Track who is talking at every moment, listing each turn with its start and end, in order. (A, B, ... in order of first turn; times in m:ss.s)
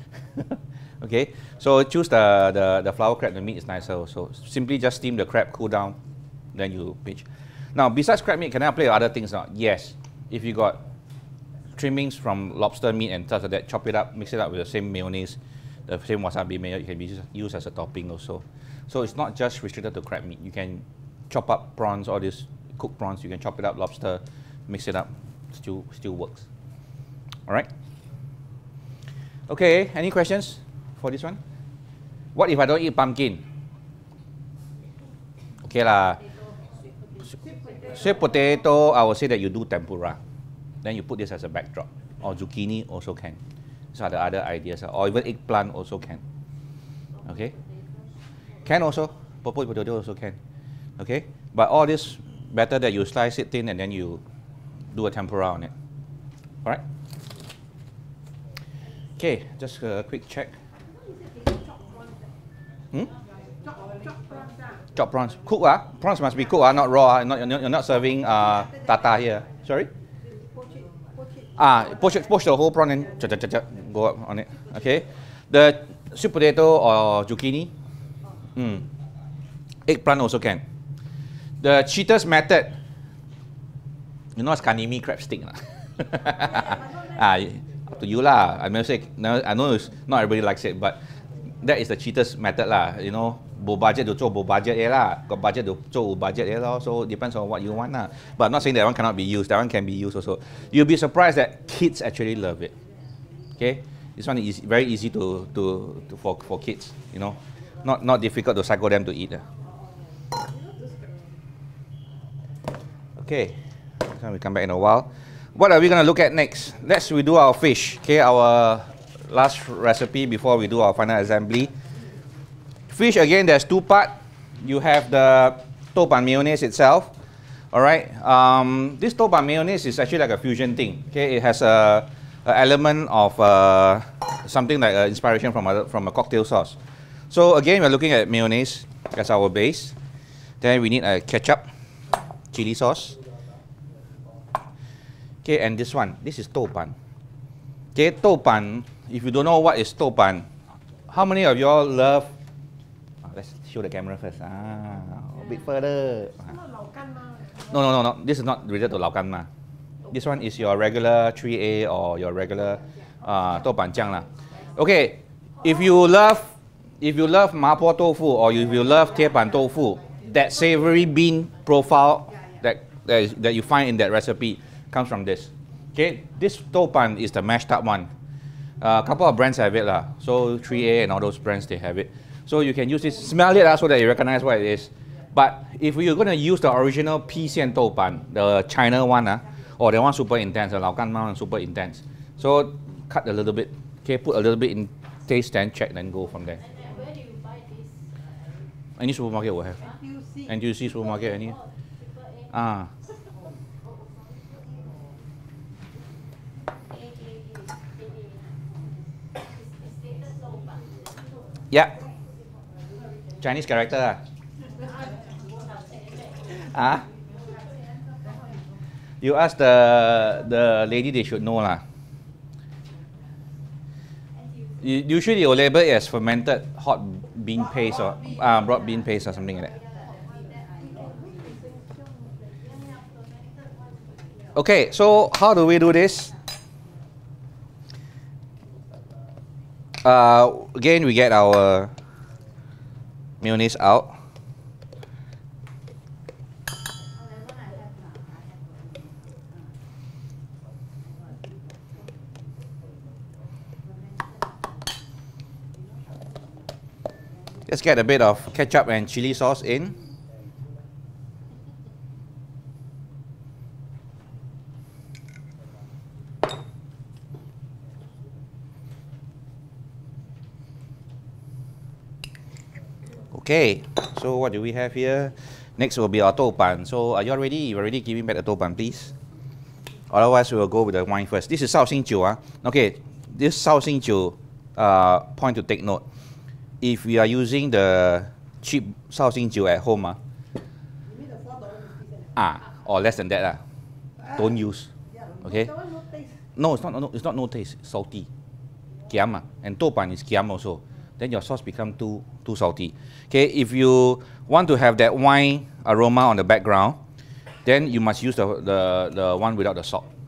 0:00.4-0:06.0 A
0:06.5-0:10.8 A
0:11.8-0:26.4 A
0:29.5-0:31.4 A
0:32.3-0:33.4 A
0:35.6-0:36.2 A
0:36.1-0:38.4 B
0:37.3-0:38.6 C
0:37.9-0:40.2 A
0:40.8-0:43.4 A
0:43.9-0:46.2 A
0:47.1-0:48.8 B
0:47.2-0:47.5 A
0:48.6-0:50.4 A
0:51.0-0:54.2 A
0:54.9-0:55.7 A
0:59.2-1:00.5 A
1:00.8-1:02.3 C
1:03.6-1:04.9 C
1:04.9-1:09.9 A
1:08.3-1:09.4 C
1:10.2-1:12.4 C
1:11.6-1:17.7 A
1:18.6-1:18.8 A
1:19.8-1:20.6 A
1:21.6-1:22.8 A
1:24.4-1:31.0 A
1:26.2-1:27.6 C
1:31.6-1:42.7 A
1:43.6-1:49.4 A
1:49.6-1:51.3 C
1:53.2-2:01.7 A
2:02.9-2:07.1 A
2:07.7-2:16.8 A
2:17.3-2:19.9 A
2:20.6-2:21.6 A
2:22.5-2:23.2 A
2:25.4-2:26.9 A
2:28.0-2:30.5 A
2:31.1-2:32.3 A
2:33.2-2:36.5 A
2:36.4-2:37.8 C
2:37.7-2:39.5 A
2:40.1-2:58.1 A
2:44.4-2:44.7 C
2:58.8-3:16.6 A
3:16.5-3:18.7 B
3:19.0-3:19.8 A
3:19.8-3:20.5 C
3:20.5-3:21.6 A
3:21.0-3:22.6 B
3:22.5-3:22.9 A
3:23.8-3:25.0 B
3:26.8-3:28.7 B
3:29.3-3:31.1 B
3:31.7-3:32.0 A
3:33.4-3:34.2 A
3:34.6-3:38.6 B
3:34.7-3:35.9 C
3:36.5-3:37.0 A
3:36.9-3:38.7 C
3:39.2-3:41.8 A
3:44.3-3:44.9 B
3:44.8-3:49.7 A
3:47.6-3:48.9 C
3:48.2-3:51.6 B
3:49.9-3:52.5 C
3:52.5-3:54.8 B
3:54.5-3:56.3 A
4:00.0-4:01.9 A
4:03.4-4:04.2 A
4:07.0-4:09.7 B
4:11.1-4:11.5 B
4:13.8-4:14.9 B
4:17.7-4:20.0 A
4:33.3-4:39.1 A
4:40.1-4:46.0 A
4:46.8-4:50.2 A
4:51.0-4:52.3 C
4:52.4-4:53.6 A
4:54.3-4:54.9 A
4:55.1-4:56.4 C
4:55.4-4:55.7 A
4:56.6-4:58.3 A
4:59.1-5:07.0 A
5:07.6-5:10.0 A